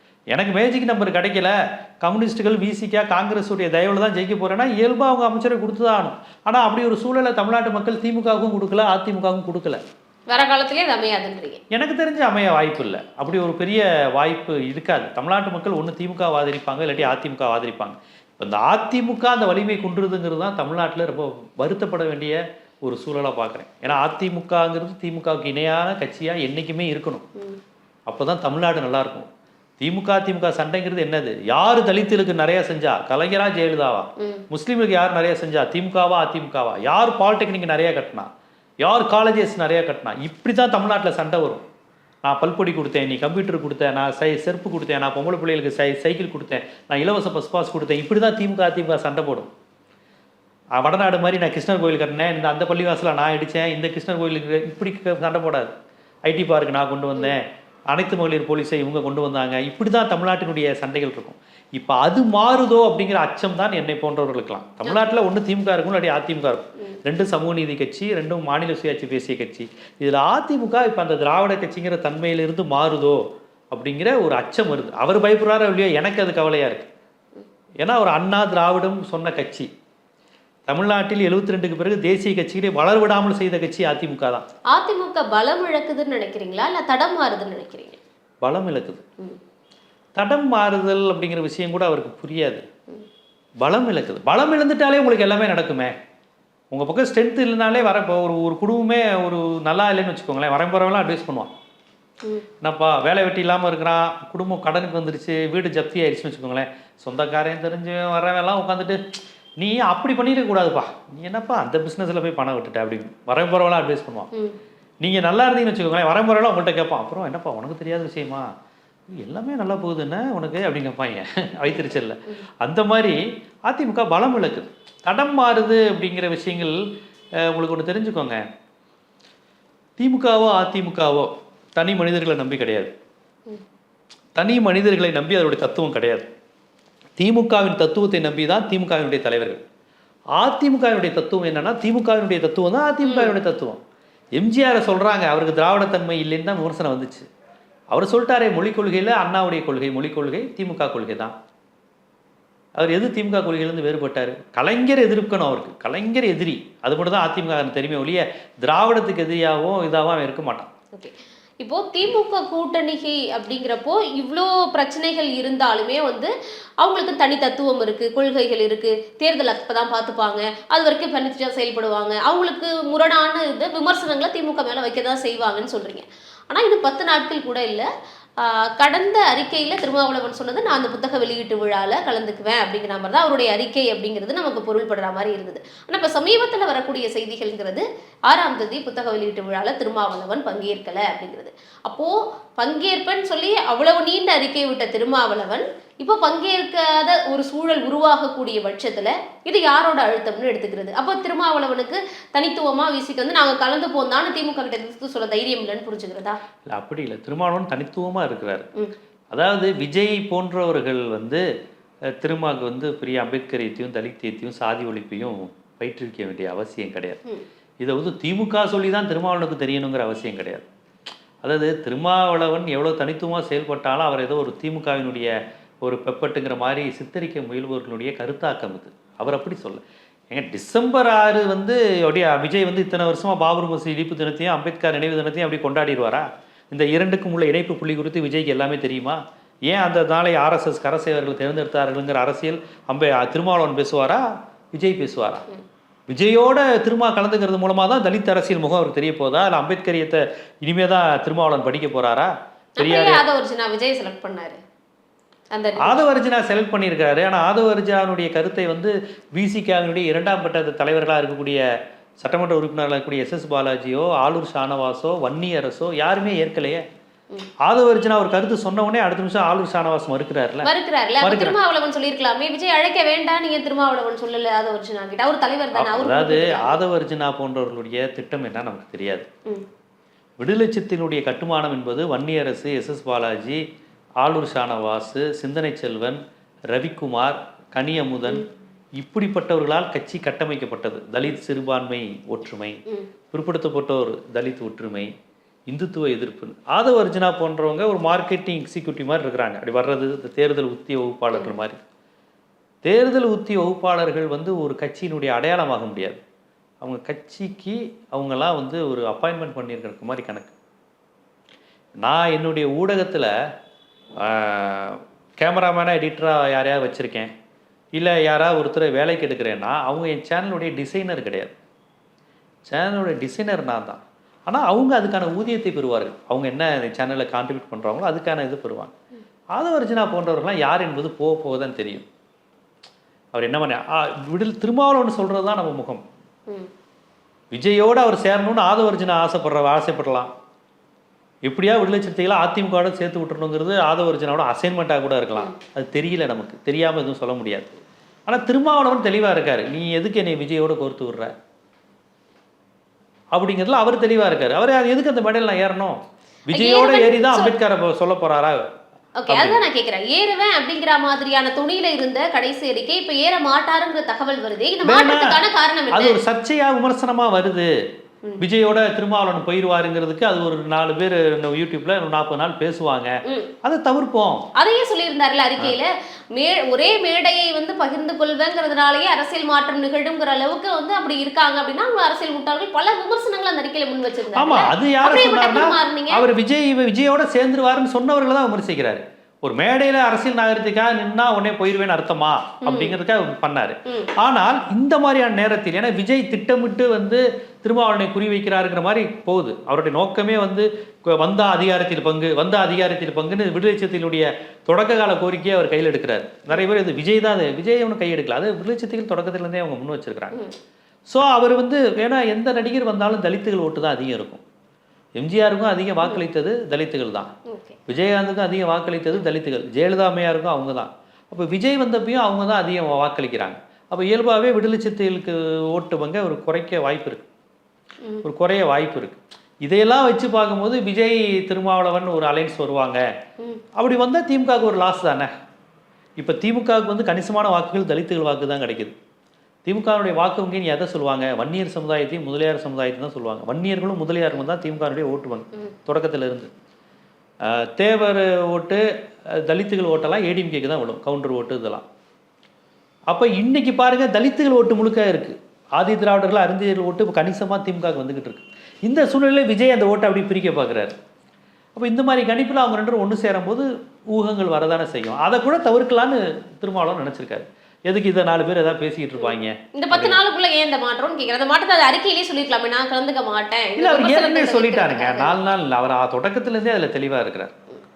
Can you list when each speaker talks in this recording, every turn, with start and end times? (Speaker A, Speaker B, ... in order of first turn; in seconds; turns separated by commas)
Speaker A: 0.3-9.8, Speaker B: 10.3-11.6, Speaker A: 11.7-27.2, Speaker A: 28.1-29.3, Speaker A: 29.8-38.3, Speaker B: 34.2-34.4, Speaker A: 38.8-41.6, Speaker A: 42.2-49.5, Speaker A: 50.8-55.7, Speaker A: 56.3-76.9, Speaker A: 77.8-79.7, Speaker A: 80.7-84.5, Speaker B: 84.7-88.0, Speaker A: 88.4-89.0, Speaker A: 90.2-92.6, Speaker A: 93.6-95.9, Speaker A: 96.7-101.5, Speaker A: 102.6-109.0, Speaker A: 109.6-114.3, Speaker A: 115.0-118.5, Speaker A: 119.1-126.8, Speaker A: 127.4-128.4, Speaker A: 130.0-132.9, Speaker A: 134.3-136.3, Speaker A: 137.2-139.6, Speaker A: 140.3-143.8, Speaker B: 143.0-143.3, Speaker A: 144.3-147.3, Speaker A: 147.9-151.3, Speaker A: 152.8-160.7, Speaker B: 160.9-206.4, Speaker A: 206.7-208.7, Speaker A: 209.3-211.4, Speaker A: 212.2-217.2, Speaker A: 217.8-220.6, Speaker A: 221.4-225.3, Speaker A: 225.8-245.4, Speaker A: 246.1-253.2, Speaker B: 252.8-254.6, Speaker B: 255.5-256.0, Speaker A: 255.8-261.6, Speaker A: 262.2-266.8, Speaker A: 267.6-270.7, Speaker B: 270.6-276.8, Speaker A: 271.2-271.6, Speaker A: 275.7-279.3, Speaker A: 280.4-283.6, Speaker A: 284.2-286.2, Speaker A: 286.7-288.4, Speaker A: 289.0-295.1, Speaker A: 295.7-301.8, Speaker A: 302.8-306.2, Speaker A: 306.8-310.5, Speaker A: 312.0-313.3, Speaker A: 314.2-317.3, Speaker A: 317.9-321.5, Speaker A: 322.7-328.9, Speaker A: 329.5-332.1, Speaker A: 333.3-336.0, Speaker A: 337.5-340.3, Speaker A: 341.4-351.3, Speaker A: 353.3-358.7, Speaker B: 356.5-357.5, Speaker B: 359.2-366.2, Speaker A: 359.3-359.6, Speaker A: 364.8-367.7, Speaker A: 368.4-374.4, Speaker B: 373.2-373.5, Speaker B: 374.6-386.2, Speaker A: 384.3-410.4, Speaker B: 392.6-393.0, Speaker B: 393.9-394.1, Speaker A: 411.1-414.4, Speaker A: 415.2-417.3, Speaker B: 417.4-417.8, Speaker A: 417.9-427.2, Speaker A: 428.2-433.0, Speaker A: 433.7-435.3, Speaker A: 436.2-438.9, Speaker A: 439.6-446.5, Speaker A: 447.4-451.8, Speaker A: 453.1-460.9, Speaker A: 461.8-470.2, Speaker B: 469.2-475.4, Speaker A: 473.8-477.5